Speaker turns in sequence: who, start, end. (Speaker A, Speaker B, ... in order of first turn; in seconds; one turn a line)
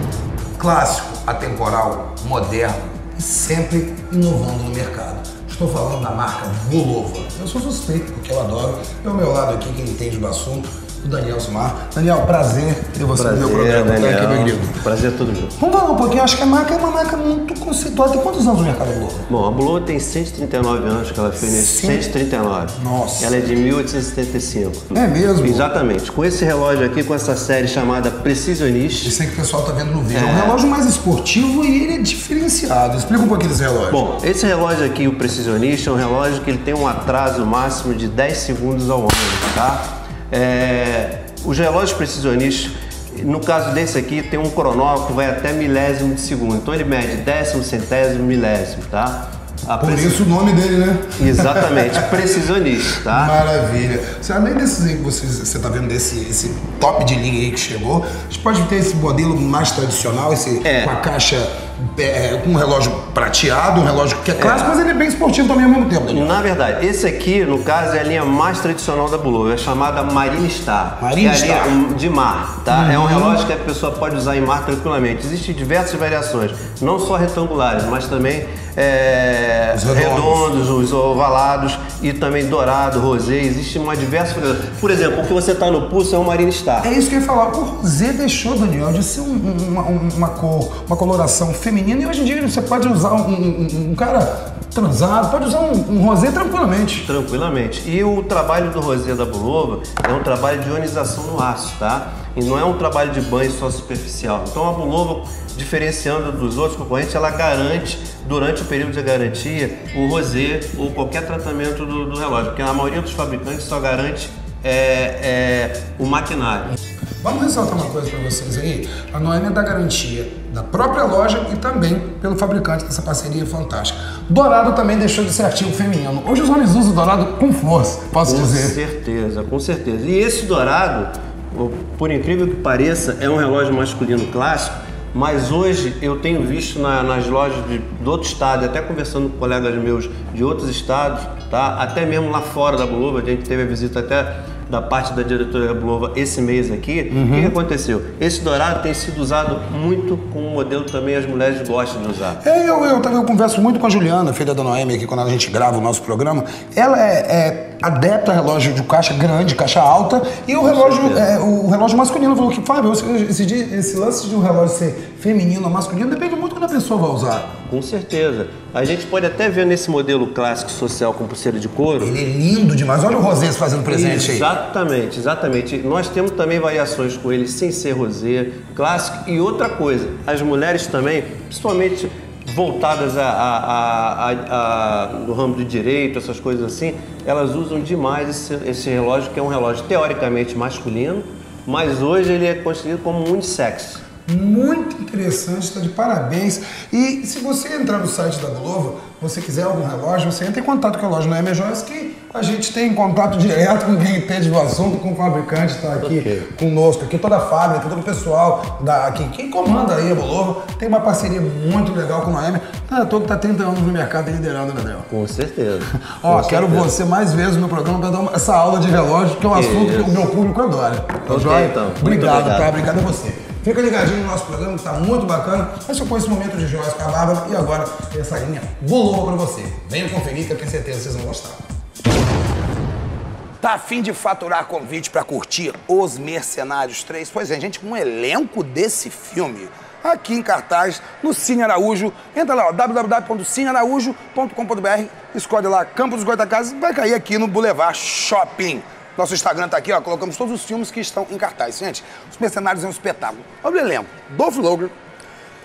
Speaker A: 0.6-14.8
Speaker B: 13.1-15.6
Speaker A: 15.6-19.3
Speaker B: 19.3-29.2
Speaker A: 21.4-22.1
Speaker A: 22.7-23.4
Speaker A: 24.9-25.7
Speaker A: 29.0-34.0
Speaker B: 30.1-30.6
Speaker B: 33.9-50.2
Speaker A: 49.8-52.2
Speaker B: 51.2-53.4
Speaker A: 53.0-66.4
Speaker B: 60.6-61.0
Speaker B: 64.4-64.8
Speaker B: 66.1-86.9
Speaker A: 71.0-71.8
Speaker A: 72.7-73.4
Speaker A: 79.7-80.5
Speaker A: 86.8-97.1
Speaker B: 97.0-116.8
Speaker A: 117.2-128.8
Speaker B: 128.2-152.4
Speaker A: 147.1-147.5
Speaker A: 152.4-167.6
Speaker B: 160.6-161.3
Speaker B: 167.7-172.2
Speaker A: 172.0-174.5
Speaker B: 173.9-194.0
Speaker A: 194.3-215.1
Speaker B: 206.0-206.5
Speaker B: 215.1-216.9
Speaker A: 215.9-231.6
Speaker B: 219.5-220.2
Speaker B: 221.3-222.7
Speaker A: 233.6-254.9